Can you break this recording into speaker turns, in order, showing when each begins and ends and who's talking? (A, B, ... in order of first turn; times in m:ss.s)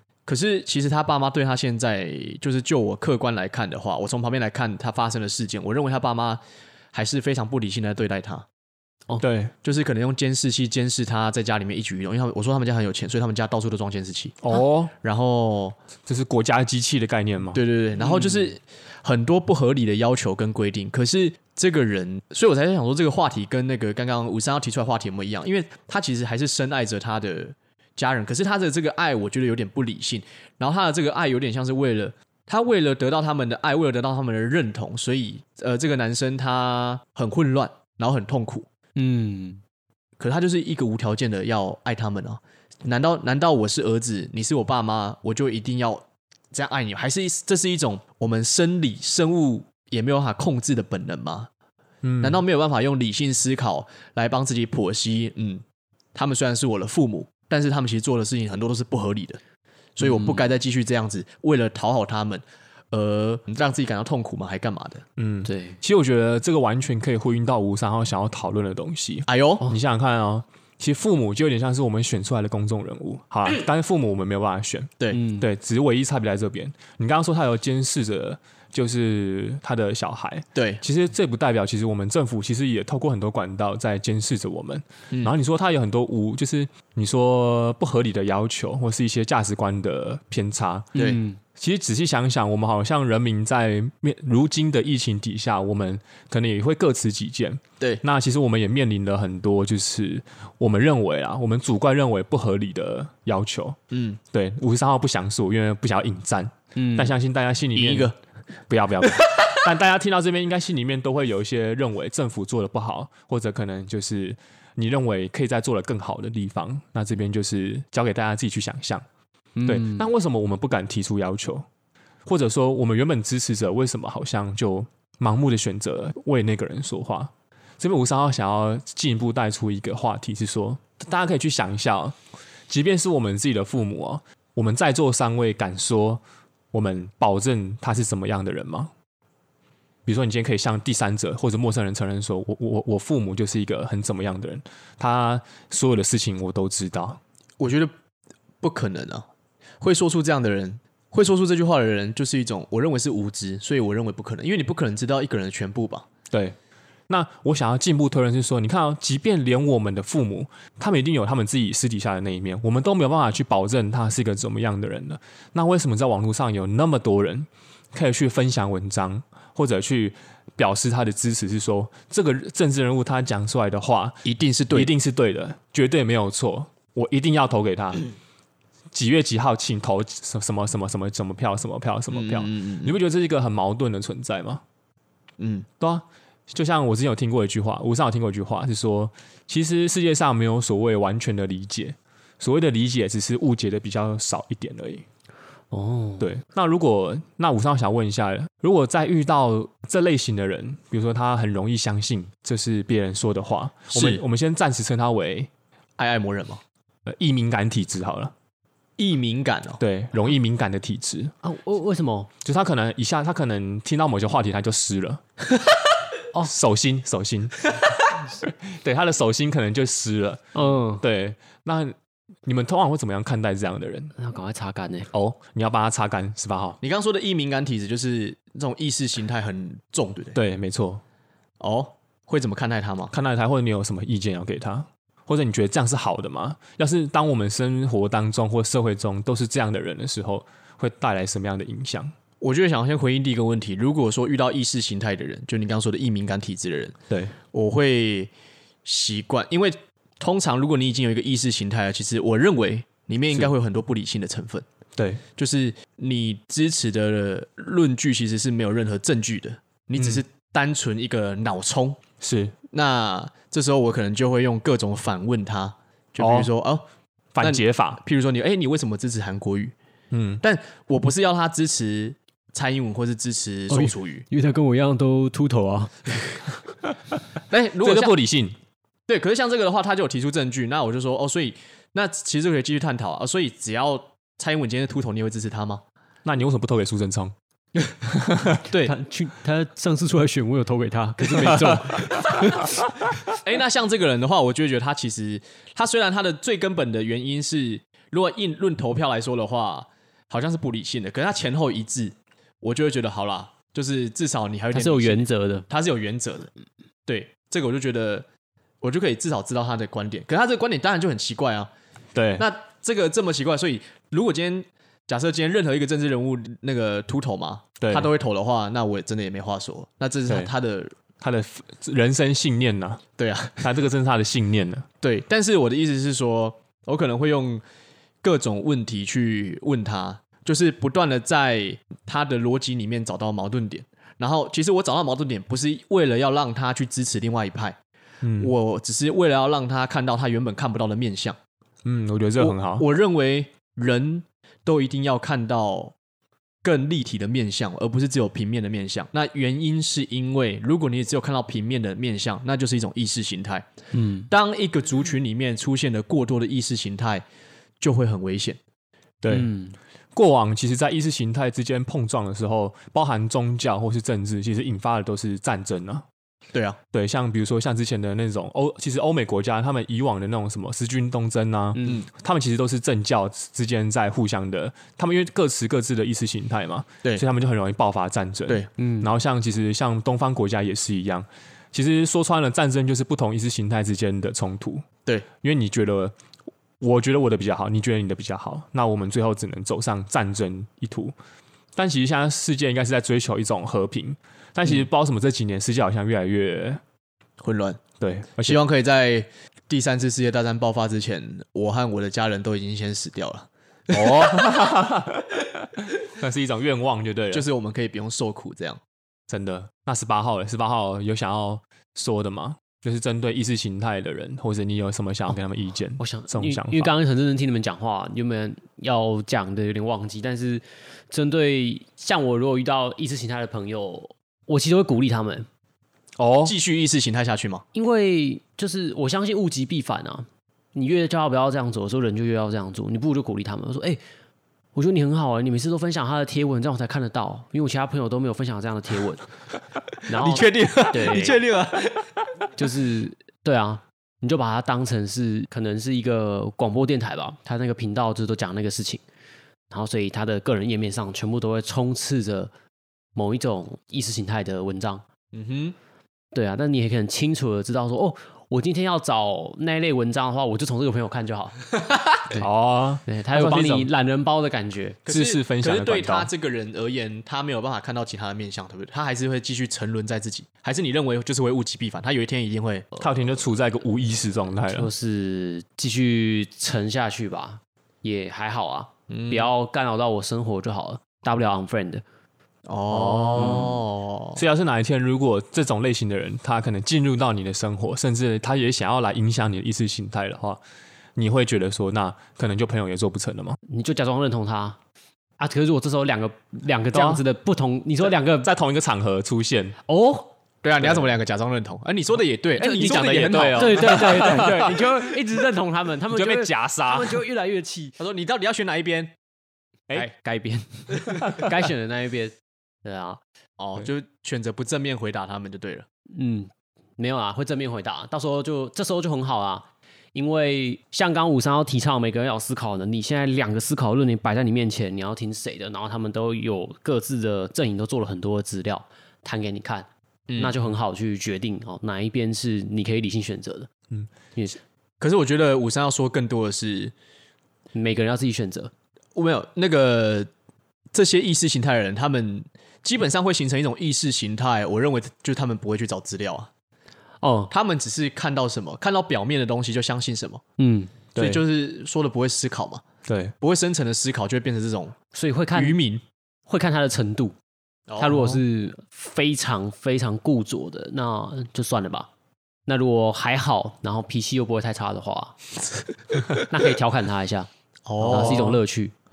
0:00.3-0:06.4 A
0:06.9-0:08.5 A
0:09.2-0:09.5 B
0:09.6-0:14.4 A
0:14.4-0:14.9 B
0:14.9-0:15.8 A
0:16.1-0:17.6 B
0:17.5-0:38.7 A
0:18.0-0:18.4 C
0:39.0-0:39.6 C
0:40.2-0:51.5 A
0:52.0-0:52.4 B
0:52.2-0:55.6 A
0:56.2-0:59.4 A
1:00.0-1:05.0 A
1:00.0-1:00.5 C
1:05.2-1:30.9 B
1:05.5-1:05.8 C
1:09.3-1:09.7 A
1:15.1-1:15.4 C
1:20.6-1:20.8 A
1:31.0-1:31.2 A
1:31.0-1:31.4 C
1:31.6-1:43.8 B
1:43.9-1:44.2 A
1:44.3-1:48.1 B
1:46.8-1:47.1 C
1:47.7-1:48.2 A
1:48.7-1:59.0 B
1:59.6-2:00.1 C
1:59.6-2:01.7 B
2:02.3-2:12.2 B
2:12.7-2:18.9 B
2:20.1-2:27.2 B
2:27.6-2:27.9 A
2:28.6-2:29.3 A
2:29.8-2:36.1 A
2:36.3-2:36.6 B
2:37.1-2:58.1 B
2:54.2-2:54.9 A
2:58.9-3:04.6 B
3:02.1-3:03.0 A
3:05.4-3:05.7 A
3:05.8-3:15.0 B
3:15.7-3:16.3 C
3:16.2-3:25.5 B
3:23.9-3:24.2 A
3:26.0-3:26.6 A
3:27.1-3:28.3 B
3:29.0-3:29.8 A
3:29.8-3:31.3 B
3:31.4-3:32.3 C
3:32.4-3:35.2 B
3:36.4-3:42.0 B
3:40.6-3:41.0 C
3:42.5-3:44.1 B
3:44.2-3:45.1 C
3:45.1-3:46.8 B
3:46.8-3:50.4 A
3:50.4-3:51.0 B
3:51.6-3:53.1 A
3:53.1-4:02.1 B
4:02.4-4:07.0 A
4:07.1-4:07.4 B
4:07.5-4:08.3 A
4:08.8-4:14.7 A
4:15.0-4:15.2 B
4:15.4-4:22.0 A
4:22.2-4:22.5 B
4:22.7-4:26.8 A
4:26.2-4:26.5 B
4:27.3-4:28.0 B
4:27.4-4:29.8 A
4:30.1-4:30.4 B
4:30.4-4:34.2 A
4:33.7-4:36.6 C
4:37.5-4:38.2 A
4:37.8-4:38.6 B
4:39.1-4:45.8 A
4:46.2-4:47.3 B
4:48.0-4:48.6 B
4:48.7-4:48.9 A
4:48.7-4:52.9 C
4:51.4-4:51.8 B
4:53.3-5:06.5 A
5:04.7-5:05.7 C
5:07.1-5:08.3 A
5:08.8-5:11.7 A
5:12.2-5:12.5 B
5:12.4-5:20.9 A
5:17.8-5:18.1 B
5:21.2-5:23.0 B
5:23.2-5:23.7 A
5:23.6-5:24.9 B
5:25.0-5:27.6 A
5:28.2-5:37.8 A
5:38.2-5:38.5 B
5:38.4-5:41.4 A
5:41.8-5:42.9 B
5:42.4-5:46.0 A
5:46.6-5:53.7 A
5:53.9-5:54.3 C
5:54.3-5:57.2 A
5:57.8-5:58.6 A
5:59.2-5:59.5 B
5:59.3-5:59.8 C
6:00.2-6:06.0 B
6:06.9-6:24.9 B
6:11.8-6:12.0 C
6:11.8-6:12.1 A
6:18.8-6:19.1 C
6:25.4-6:26.1 B
6:26.8-6:31.1 B
6:31.8-6:36.8 B
6:37.4-6:37.8 A
6:38.0-6:38.6 B
6:38.4-6:44.5 A
6:43.9-6:47.5 B
6:47.3-6:48.8 A
6:49.3-6:56.9 B
6:56.0-7:05.5 C
7:06.2-7:06.5 B
7:06.4-7:07.6 A
7:07.7-7:14.0 C
7:14.8-7:19.3 C
7:20.0-7:21.4 C
7:20.1-7:22.2 A
7:22.6-7:29.0 C
7:29.7-7:32.5 C
7:33.2-7:35.0 C
7:35.3-7:35.8 A
7:36.3-7:41.7 C
7:42.4-7:43.9 B
7:43.1-7:45.0 C
7:45.0-7:52.9 A
7:45.1-7:46.3 B
7:53.0-7:54.9 B
7:54.7-8:02.0 C
7:59.1-7:59.5 A
8:02.7-8:04.4 A
8:02.9-8:03.7 B
8:03.1-8:03.8 C
8:04.4-8:10.6 B
8:11.2-8:13.6 B
8:13.7-8:14.8 C
8:15.4-8:18.5 C
8:16.9-8:17.2 B
8:18.0-8:19.8 B
8:19.9-8:20.3 C
8:20.6-8:24.6 A
8:22.6-8:28.0 C
8:22.6-8:25.1 B
8:26.1-8:27.2 B
8:28.0-8:29.2 A
8:30.0-8:33.2 C
8:31.2-8:31.5 B
8:33.6-8:35.9 A
8:36.1-8:53.7 C
8:50.3-8:50.6 A
8:55.0-8:56.9 A
8:57.7-8:58.7 C
8:59.2-9:00.3 A
9:00.9-9:06.5 A
9:07.2-9:07.5 C
9:07.5-9:10.4 A
9:10.6-9:11.0 C
9:11.2-9:11.4 B
9:11.2-9:12.8 A
9:13.1-9:13.3 B
9:13.4-9:15.0 A
9:15.1-9:15.8 C
9:15.5-9:16.0 A
9:16.5-9:17.4 C
9:17.9-9:18.4 A
9:18.0-9:22.1 C
9:22.7-9:25.5 C
9:26.3-9:27.5 C
9:27.9-9:28.6 A
9:28.0-9:28.9 C